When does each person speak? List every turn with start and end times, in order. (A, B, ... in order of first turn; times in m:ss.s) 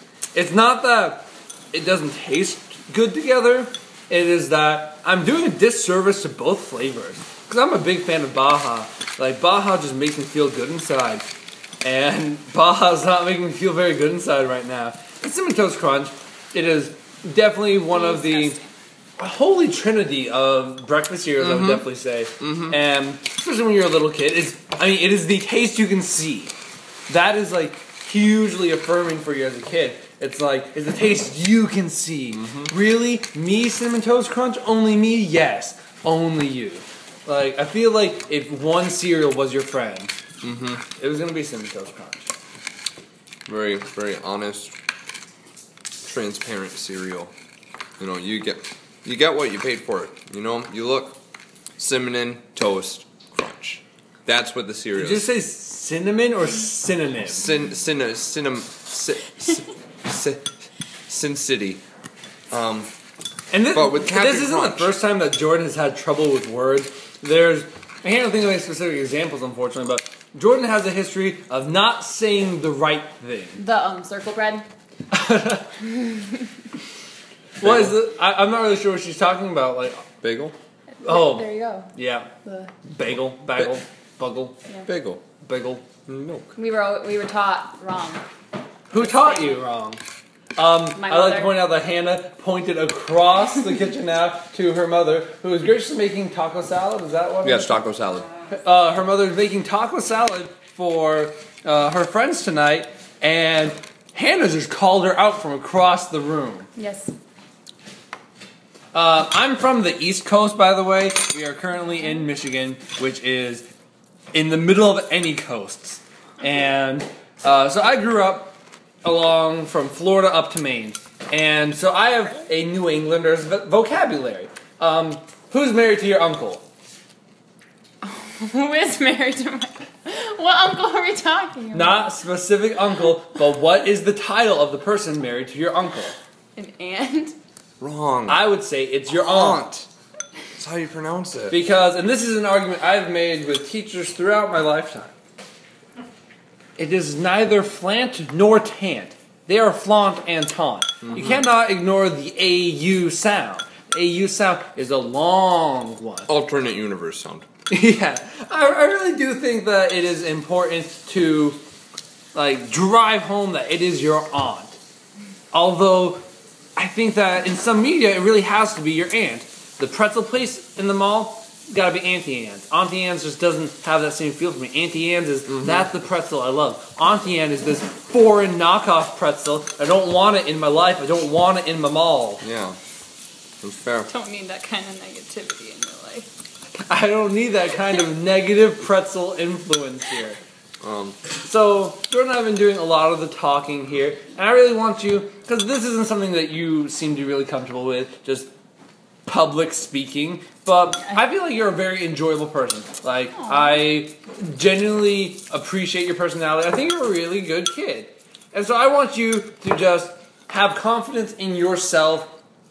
0:00.3-0:11.2 A
0:11.8-0:18.6 A
0:17.8-0:18.7 B
0:19.2-0:26.6 A
0:21.4-0:21.9 C
0:22.4-0:22.8 C
0:27.1-0:40.2 A
0:32.4-0:32.7 C
0:40.4-0:40.8 C
0:41.0-0:42.3 A
0:43.5-0:44.7 C
0:46.0-0:47.3 C
0:48.0-0:51.2 C
0:51.8-0:55.3 C
0:55.0-0:57.5 A
0:57.3-1:01.8 C
1:02.5-1:02.9 C
1:03.5-1:13.6 A
1:03.7-1:05.0 C
1:13.6-1:14.7 B
1:15.1-1:15.7 A
1:15.8-1:16.5 B
1:17.6-1:20.0 A
1:17.6-1:18.0 C
1:20.2-1:20.6 C
1:21.0-1:21.9 B
1:21.0-1:22.3 A
1:22.4-1:22.7 B
1:22.8-1:24.6 A
1:24.9-1:25.2 C
1:25.4-1:25.8 A
1:26.1-1:26.5 C
1:26.6-1:28.2 B
1:28.9-1:30.0 A
1:28.9-1:29.6 B
1:30.6-1:37.8 A
1:30.9-1:31.7 B
1:37.4-1:38.3 C
1:38.5-1:46.7 A
1:46.8-1:47.1 B
1:48.9-1:53.6 A
1:54.3-2:06.6 A
2:08.0-2:12.2 B
2:11.7-2:16.2 A
2:16.6-2:17.4 B
2:17.8-2:18.5 C
2:18.3-2:19.6 A
2:19.1-2:19.9 C
2:20.6-2:21.6 C
2:21.5-2:25.1 A
2:26.8-2:36.3 A
2:31.0-2:31.4 C
2:36.3-2:37.5 C
2:37.7-2:41.6 A
2:42.3-2:44.8 A
2:45.5-2:46.2 A
2:46.8-3:02.4 A
2:55.5-2:55.8 C
3:02.4-3:02.8 C
3:03.6-3:04.1 C
3:04.1-3:06.3 B
3:06.8-3:10.4 A
3:10.8-3:11.2 C
3:11.4-3:18.5 A
3:19.3-3:32.3 A
3:23.3-3:24.0 B